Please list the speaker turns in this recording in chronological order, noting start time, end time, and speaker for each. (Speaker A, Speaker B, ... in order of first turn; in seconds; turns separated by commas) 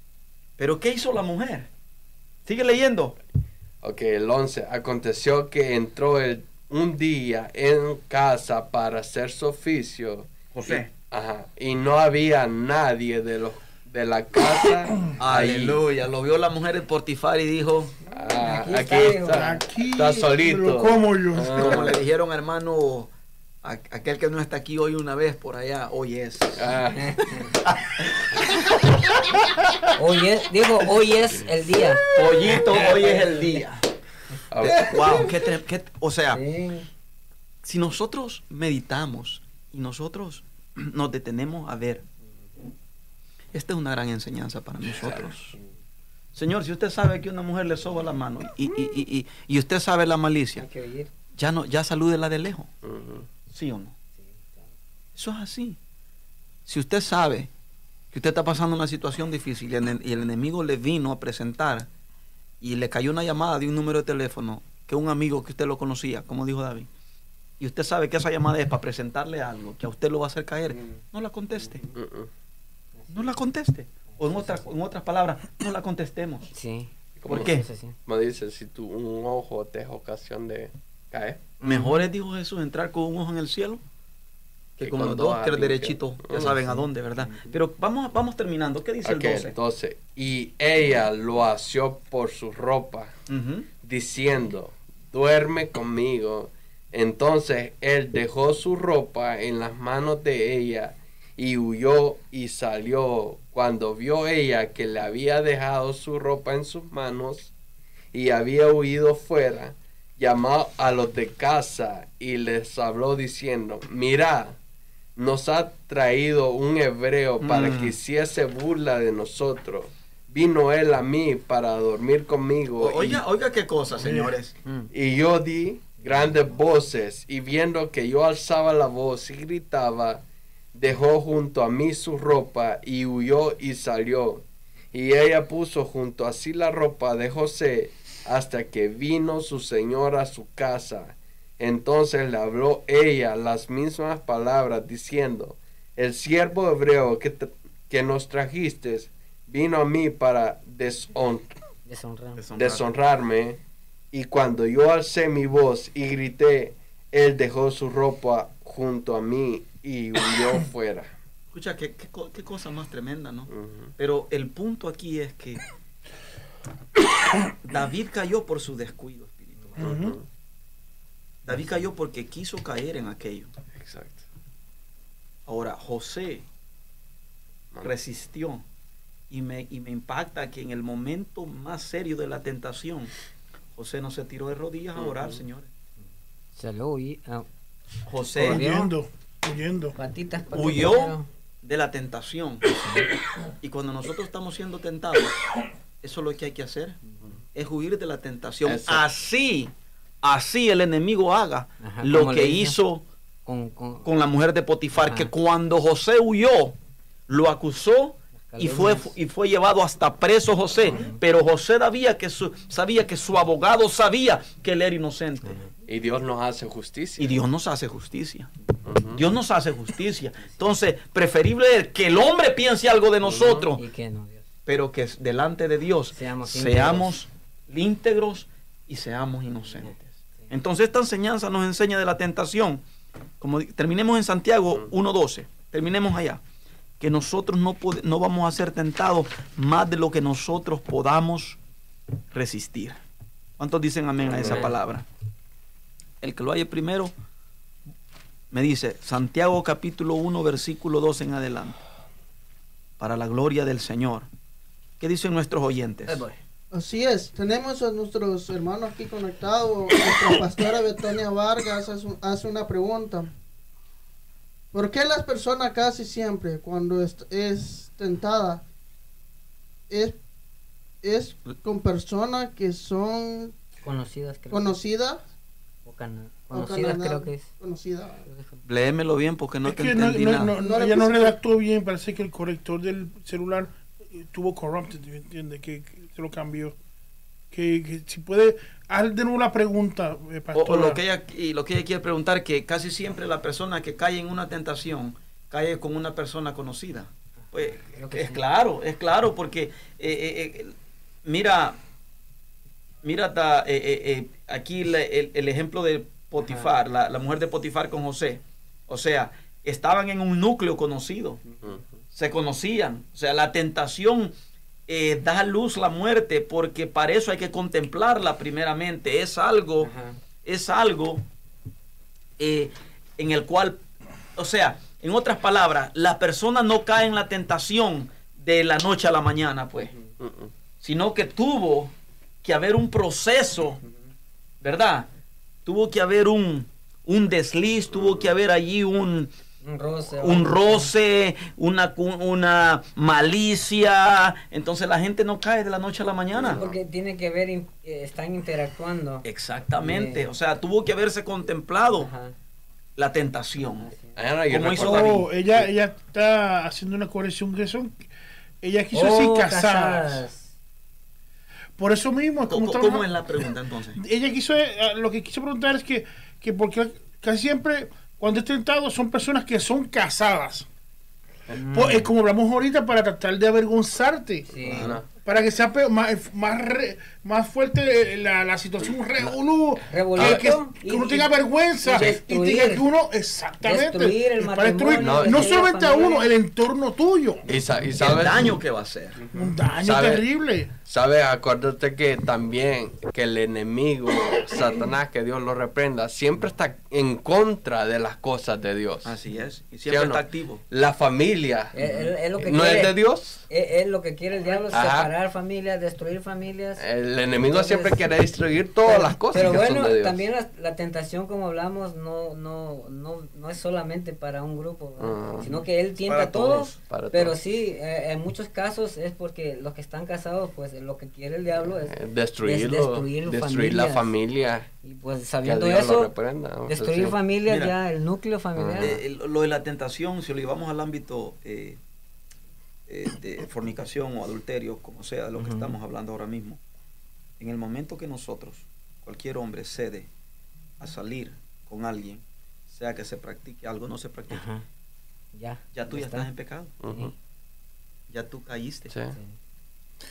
Speaker A: 0.6-1.7, Speaker A: 2.5-3.2, Speaker B: 3.8-15.8, Speaker A: 10.5-10.9, Speaker A: 15.2-17.9, Speaker B: 18.1-22.0, Speaker C: 18.3-19.5, Speaker D: 19.3-21.7, Speaker A: 21.5-23.1, Speaker A: 23.6-26.7, Speaker B: 26.6-27.4, Speaker C: 27.0-27.5, Speaker A: 27.5-29.2, Speaker C: 29.9-33.6, Speaker A: 32.1-33.8, Speaker B: 34.5-35.2, Speaker A: 34.6-36.4, Speaker C: 36.3-36.9, Speaker A: 37.6-42.0, Speaker A: 43.5-45.5, Speaker A: 46.3-50.6, Speaker C: 50.5-51.1, Speaker A: 51.3-52.7, Speaker B: 52.8-53.2, Speaker A: 53.5-53.9, Speaker C: 54.2-54.7, Speaker A: 55.1-55.8, Speaker A: 56.7-57.5, Speaker A: 58.1-61.9, Speaker A: 62.6-66.9, Speaker A: 67.6-71.9, Speaker B: 71.9-72.3, Speaker A: 73.1-76.5, Speaker C: 74.1-74.7, Speaker C: 76.5-77.9, Speaker B: 77.2-81.5, Speaker A: 77.2-77.7, Speaker A: 81.6-83.8, Speaker A: 84.8-89.6, Speaker B: 84.8-86.5, Speaker C: 86.3-86.8, Speaker B: 89.0-93.1, Speaker A: 93.3-93.7, Speaker B: 93.8-107.5, Speaker B: 108.1-114.6, Speaker B: 115.2-123.2, Speaker A: 117.4-118.0, Speaker A: 122.8-124.5, Speaker B: 124.9-130.2, Speaker B: 130.7-151.5, Speaker C: 151.8-152.4, Speaker A: 152.4-152.9, Speaker B: 152.5-153.6, Speaker B: 154.1-161.1, Speaker A: 161.5-165.6, Speaker B: 163.5-163.9, Speaker A: 167.6-169.9, Speaker D: 169.8-170.2, Speaker B: 169.8-170.2, Speaker A: 171.4-173.5, Speaker B: 173.7-174.2, Speaker A: 175.4-176.4, Speaker A: 177.8-178.6, Speaker A: 179.3-183.1, Speaker A: 183.7-185.7, Speaker C: 186.6-187.4, Speaker A: 188.1-188.6, Speaker D: 188.3-190.0, Speaker C: 188.4-188.9, Speaker C: 189.9-191.3, Speaker A: 190.5-192.8, Speaker A: 193.6-195.5, Speaker A: 196.0-197.0, Speaker A: 197.5-203.0, Speaker B: 198.6-199.1, Speaker C: 201.8-202.8, Speaker C: 203.4-204.1, Speaker A: 204.0-206.7, Speaker C: 205.0-205.3, Speaker A: 207.3-215.6, Speaker C: 208.5-209.1, Speaker C: 215.4-215.7, Speaker B: 215.9-217.4, Speaker A: 217.2-218.5, Speaker B: 218.8-219.2, Speaker A: 219.1-223.8, Speaker B: 223.2-223.7, Speaker C: 223.8-224.4, Speaker A: 224.7-232.8, Speaker C: 226.2-227.1, Speaker A: 233.4-236.4, Speaker A: 237.0-241.6, Speaker A: 242.3-243.0, Speaker A: 243.6-245.0, Speaker B: 244.3-244.7, Speaker C: 244.4-244.7, Speaker A: 246.2-247.1, Speaker A: 248.5-251.8, Speaker A: 253.0-254.3, Speaker A: 255.0-256.2, Speaker C: 256.1-256.3, Speaker E: 256.7-263.3, Speaker E: 264.7-268.6, Speaker E: 269.9-270.2, Speaker E: 271.0-273.5, Speaker C: 273.8-274.8, Speaker E: 274.5-275.2, Speaker C: 275.8-277.5, Speaker E: 276.5-278.2, Speaker C: 278.2-278.6, Speaker A: 278.6-280.5, Speaker D: 279.6-286.8, Speaker E: 280.6-281.3, Speaker D: 287.5-291.0, Speaker A: 290.5-300.7, Speaker C: 297.6-298.4, Speaker A: 301.2-301.8, Speaker A: 303.0-311.4, Speaker C: 306.4-306.7, Speaker C: 311.5-311.7, Speaker A: 312.1-314.3, Speaker A: 314.9-319.9, Speaker C: 319.8-320.1, Speaker A: 320.4-321.2, Speaker A: 322.4-323.8, Speaker A: 324.4-329.9, Speaker B: 330.2-330.5, Speaker A: 330.8-333.8, Speaker A: 334.6-335.1, Speaker A: 335.6-339.3, Speaker B: 337.9-338.3, Speaker C: 339.6-340.9, Speaker A: 340.2-346.6, Speaker B: 346.4-346.8, Speaker C: 346.4-349.2, Speaker A: 349.2-352.1, Speaker C: 349.8-350.2, Speaker C: 351.9-352.3, Speaker A: 352.9-353.9, Speaker C: 353.8-354.1, Speaker B: 354.1-355.7, Speaker A: 354.5-355.2, Speaker D: 354.7-358.0, Speaker D: 358.6-360.2, Speaker C: 358.9-360.5, Speaker D: 361.8-370.6, Speaker A: 362.5-364.0, Speaker C: 371.5-372.1, Speaker D: 371.6-374.6, Speaker C: 374.5-374.9, Speaker A: 374.7-375.0, Speaker B: 374.7-375.0, Speaker D: 375.1-387.4, Speaker C: 379.9-381.3, Speaker C: 381.8-382.9, Speaker C: 383.6-386.2, Speaker B: 384.9-385.5, Speaker B: 387.5-388.6, Speaker A: 388.0-389.2, Speaker D: 389.3-390.7, Speaker B: 389.8-390.2, Speaker B: 390.8-399.1, Speaker A: 399.0-400.6, Speaker B: 399.9-403.4, Speaker C: 401.7-406.8, Speaker B: 404.7-405.1, Speaker B: 406.8-410.2, Speaker C: 407.4-408.0, Speaker C: 408.9-424.1, Speaker B: 415.0-415.6, Speaker A: 416.0-416.8, Speaker B: 416.9-417.4, Speaker B: 421.8-424.7, Speaker C: 424.8-426.1, Speaker B: 425.4-427.2, Speaker C: 426.7-429.0, Speaker A: 427.5-427.7, Speaker B: 428.6-429.0, Speaker A: 428.8-431.8, Speaker A: 432.9-436.6, Speaker C: 435.4-435.7, Speaker A: 437.4-440.1, Speaker A: 440.8-444.4, Speaker C: 444.3-444.6, Speaker C: 445.3-446.3, Speaker A: 445.7-446.7, Speaker B: 446.8-447.1, Speaker A: 448.1-448.9, Speaker B: 448.9-449.2